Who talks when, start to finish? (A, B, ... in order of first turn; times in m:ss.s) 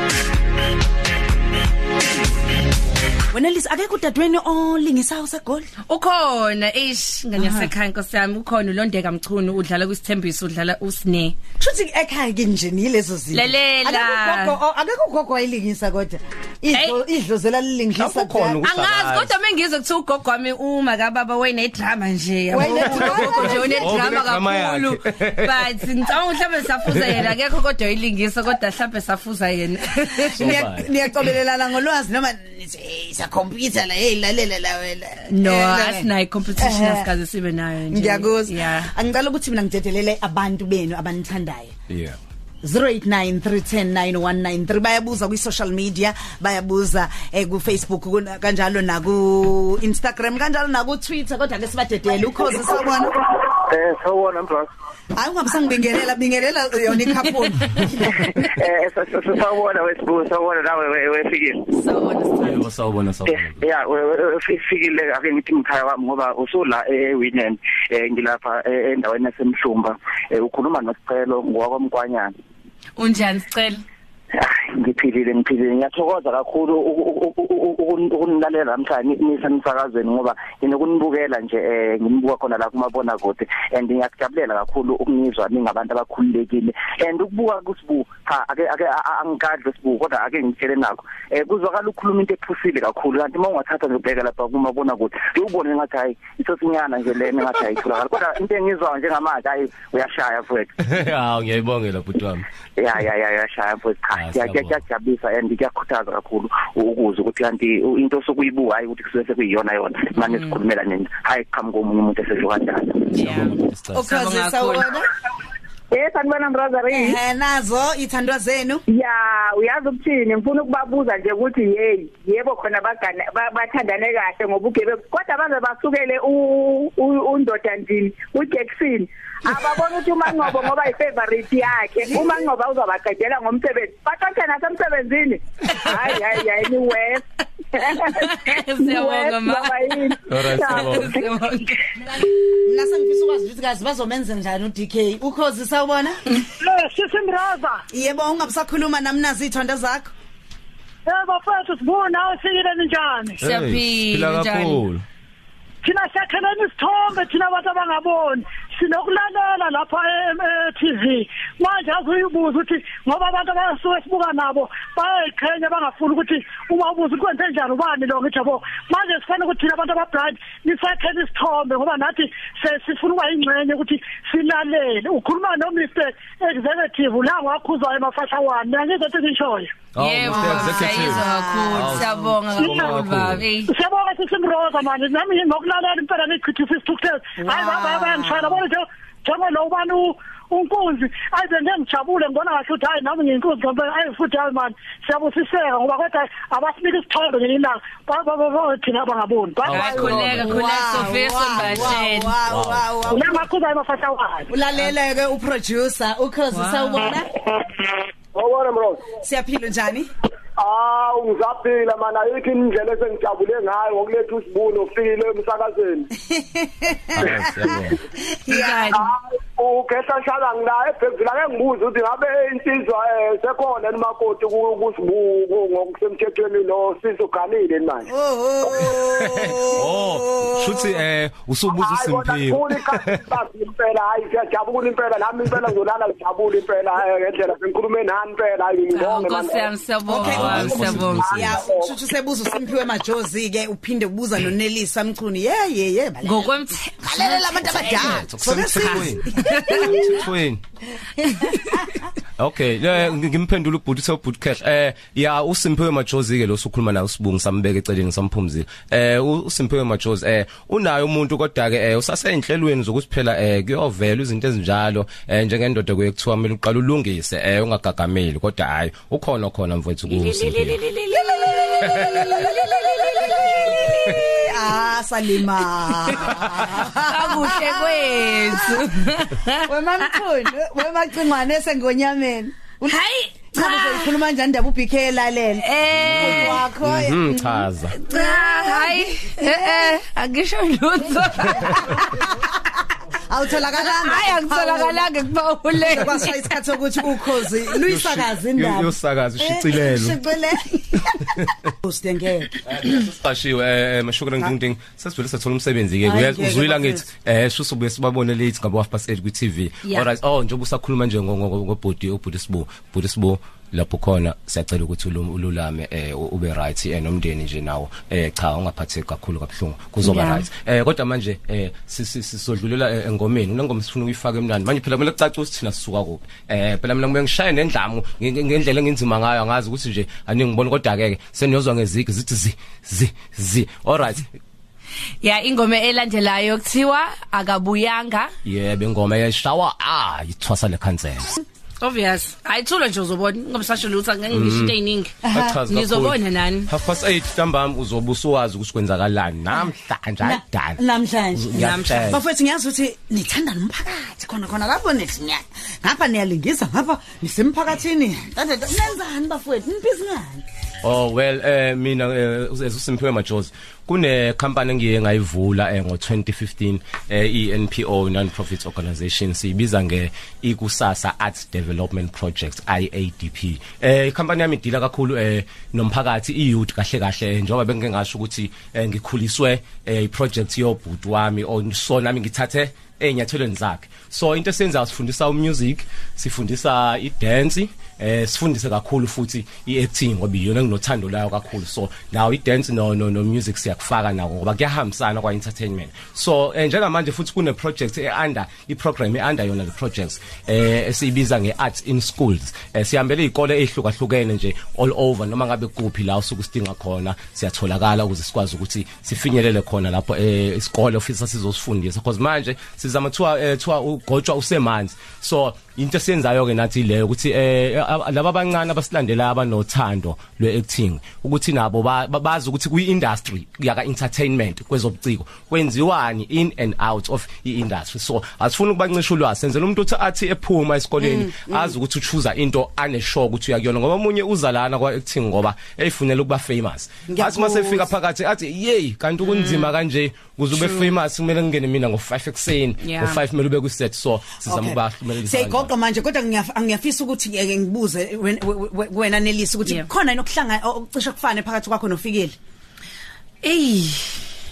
0:03.3-0:05.7 A
0:05.9-0:11.4 B
0:07.4-0:07.7 A
0:11.6-0:18.6 A
0:13.3-0:14.6 B
0:16.7-0:17.0 B
0:18.0-0:19.3 C
0:18.6-0:30.6 B
0:22.5-0:24.2 A
0:22.7-0:25.8 C
0:26.9-0:27.3 C
0:30.4-0:30.9 C
0:30.4-0:37.1 A
0:35.3-0:38.9 B
0:37.9-0:41.8 A
0:41.9-0:42.2 C
0:42.6-0:53.1 A
0:53.3-0:54.7 D
0:55.2-0:58.5 A
0:58.4-1:01.7 D
1:01.7-1:02.6 B
1:02.4-1:03.6 C
1:03.3-1:12.3 D
1:13.0-1:13.8 B
1:14.3-1:40.7 D
1:40.8-1:42.5 C
1:42.8-1:53.0 D
1:44.1-1:44.8 C
1:50.3-1:50.6 B
1:53.1-1:55.0 B
1:53.1-1:54.0 C
1:53.9-1:55.1 A
1:55.9-1:57.2 E
1:56.9-1:58.8 A
1:58.9-2:21.1 E
2:18.0-2:22.3 B
2:20.3-2:21.2 C
2:22.6-2:26.2 A
2:26.6-2:27.8 F
2:27.9-2:30.1 A
2:31.1-2:33.4 F
2:33.4-2:34.8 B
2:33.4-2:35.0 C
2:35.8-2:59.8 F
3:00.0-3:03.5 C
3:00.0-3:03.7 B
3:00.3-3:02.2 A
3:02.6-3:03.0 F
3:03.7-3:20.4 F
3:07.4-3:08.6 A
3:19.6-3:20.8 C
3:19.7-3:22.4 B
3:20.4-3:23.4 A
3:21.6-3:23.2 C
3:23.1-3:24.5 F
3:24.5-3:27.3 A
3:26.5-3:27.1 B
3:28.3-3:29.2 G
3:29.2-3:30.1 A
3:30.6-3:36.1 G
3:36.3-3:37.7 A
3:37.2-3:38.0 C
3:38.3-3:38.9 A
3:38.5-3:39.1 B
3:38.9-3:48.1 G
3:48.1-3:51.0 A
3:48.6-3:49.0 G
3:49.2-3:53.2 C
3:51.7-3:59.7 G
3:58.9-4:01.3 B
4:00.1-4:10.2 A
4:00.2-4:01.6 C
4:00.5-4:01.9 G
4:06.2-4:08.2 B
4:07.6-4:10.6 C
4:08.8-4:10.2 B
4:11.2-4:11.8 B
4:12.4-4:30.8 C
4:30.1-4:34.2 B
4:31.2-4:38.8 A
4:31.8-4:32.4 C
4:36.1-4:40.2 B
4:39.6-4:43.0 A
4:42.9-4:44.1 B
4:43.5-4:50.0 A
4:45.6-4:46.6 B
4:45.9-4:48.0 C
4:48.0-4:52.2 B
4:51.7-4:52.6 A
4:53.3-4:55.1 A
4:53.8-4:56.4 B
4:55.8-5:03.0 A
4:57.8-5:00.2 C
5:01.2-5:01.5 C
5:02.6-5:34.3 C
5:06.0-5:07.0 A
5:20.0-5:20.5 B
5:35.2-5:38.3 B
5:38.4-5:41.3 C
5:41.8-5:46.7 B
5:44.3-5:52.2 C
5:45.3-5:45.6 A
5:50.2-6:00.4 A
5:51.5-5:52.2 B
6:00.8-7:25.7 C
7:11.0-7:11.8 A
7:17.1-7:17.9 A
7:20.6-7:20.9 B
7:22.8-7:23.2 B
7:24.5-7:32.4 A
7:33.4-7:34.2 B